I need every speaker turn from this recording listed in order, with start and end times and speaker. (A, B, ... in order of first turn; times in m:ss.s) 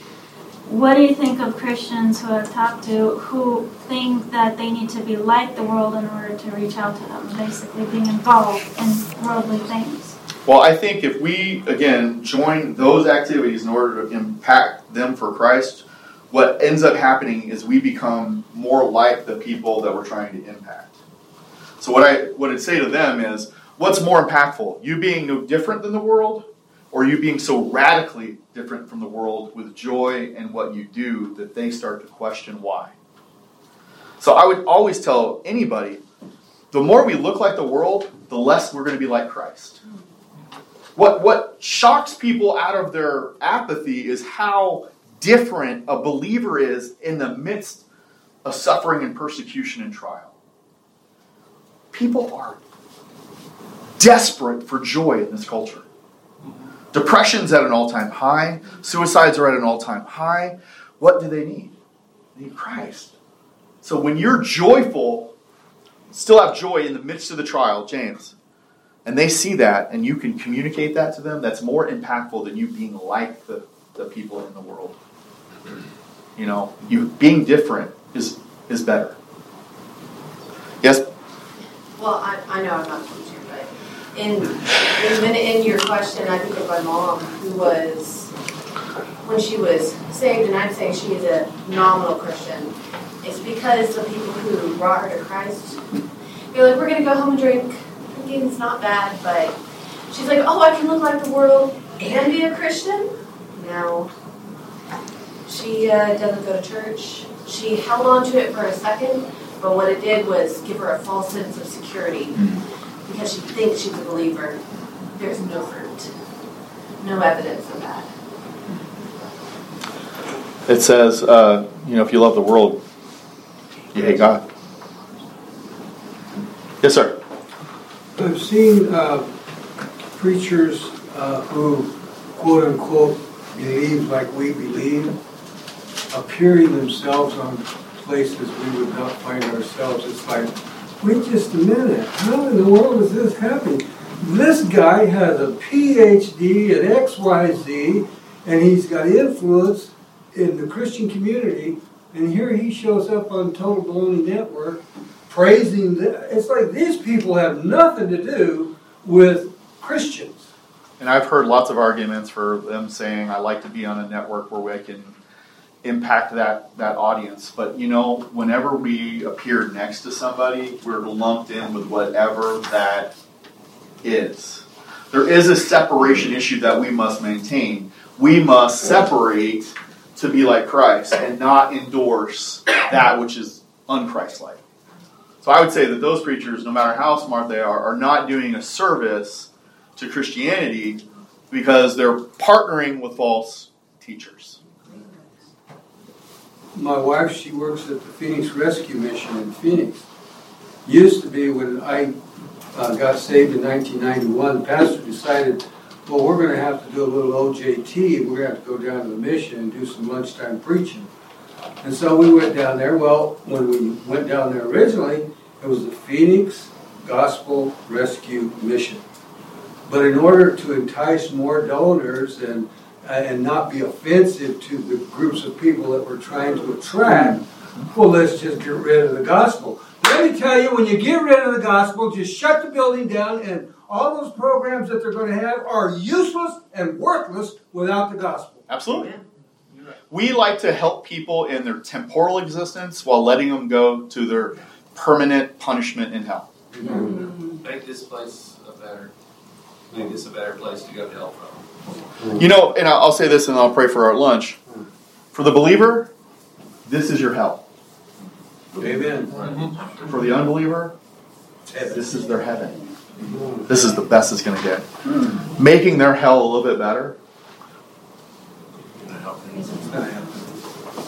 0:00.6-0:10.2 A
0:10.4-0:20.9 B
0:21.8-0:32.9 B
0:34.2-0:36.0 B
0:36.7-0:39.8 B
0:41.0-0:47.8 B
0:48.4-0:50.3 B
0:51.9-0:52.6 B
0:54.0-0:55.8 B
0:56.9-1:01.8 B
1:02.4-1:03.1 B
1:03.8-1:05.3 B
1:06.1-1:08.3 B
1:09.0-1:15.0 B
1:16.4-1:19.2 B
1:20.8-1:21.1 B
1:22.0-1:28.3 C
1:29.2-1:35.8 C
1:36.5-1:39.6 C
1:40.1-1:44.1 C
1:45.5-1:54.6 C
1:55.1-1:56.1 C
1:57.0-1:58.1 C
2:00.7-2:02.8 B
2:03.9-2:04.4 B
2:06.8-2:07.2 B
2:08.1-2:09.3 D
2:10.2-2:15.2 D
2:16.1-2:40.4 D
2:41.0-2:45.2 B
2:45.8-2:53.1 B
2:54.0-3:04.6 B
3:05.4-3:14.6 B
3:16.7-3:20.0 D
3:20.8-3:22.1 D
3:22.7-3:31.1 D
3:31.8-3:39.0 D
3:39.9-3:58.7 D
3:58.7-3:59.1 B
3:58.9-3:59.2 C
4:00.1-4:06.5 B
4:06.7-4:07.2 D
4:06.9-4:07.3 C
4:07.6-4:09.1 E
4:09.9-4:11.6 E
4:12.3-4:14.6 B
4:15.3-4:16.1 B
4:16.8-4:17.6 B
4:18.8-4:19.4 D
4:19.3-4:19.9 E
4:20.0-4:20.9 B
4:21.7-4:21.9 D
4:21.8-4:22.8 B
4:23.3-4:23.6 D
4:23.6-4:27.2 B
4:29.1-4:30.0 E
4:29.9-4:30.2 D